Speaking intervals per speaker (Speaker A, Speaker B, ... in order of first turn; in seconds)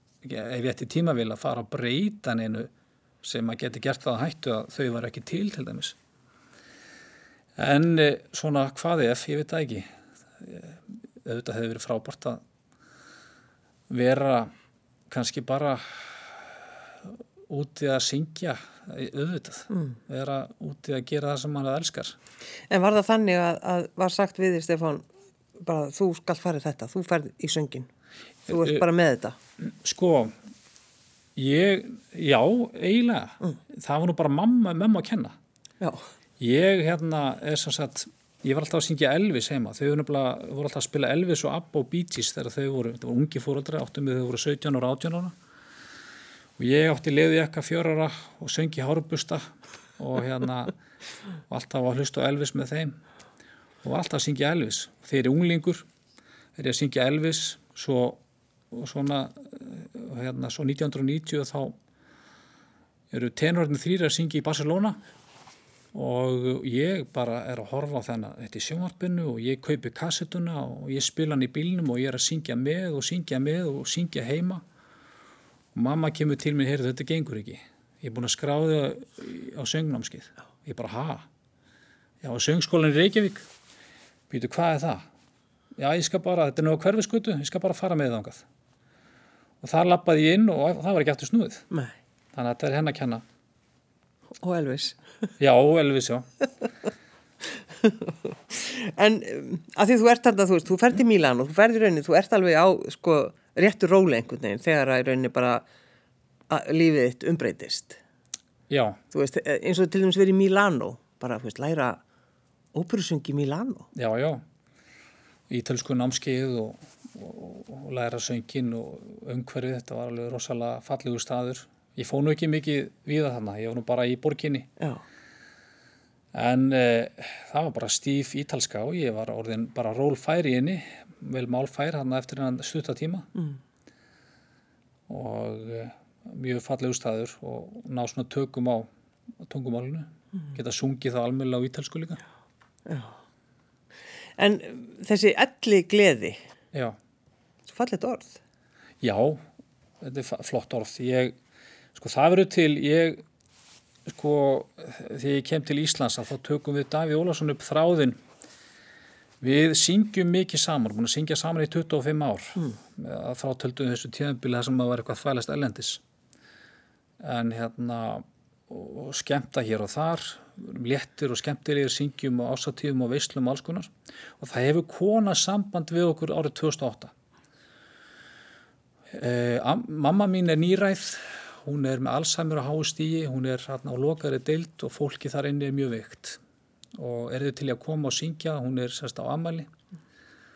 Speaker A: 0.2-2.7, 3.2-6.0, 7.6-12.4, 13.9-14.5, 15.1-22.2, 28.5-28.8, 29.6-30.4, 31.4-35.4, 36.4-45.4, 46.6-50.8, 51.5-53.0, 53.8-55.9, 56.6-61.8, 63.1-65.0, 65.9-74.6, 75.8-81.3, 82.2-83.5, 84.3-85.0, 85.8-88.5, 89.6-91.7, 92.3-93.2, 95.4-96.3, 108.7-109.0, 113.9-114.4, 115.5-124.7, 126.3-133.3, 135.1-138.9, 139.4-142.2, 146.7-147.0, 149.0-149.4, 150.0-151.3, 151.9-153.2, 154.1-158.2, 159.4-166.0, 167.2-177.1, 179.1-186.4, 186.9-189.7
Speaker B: 22.7-25.1, 25.6-27.9, 28.5-29.4, 94.4-95.0, 97.8-105.6, 106.5-108.0, 109.1-112.0, 112.7-113.9, 142.9-143.2, 144.4-146.4, 147.7-148.4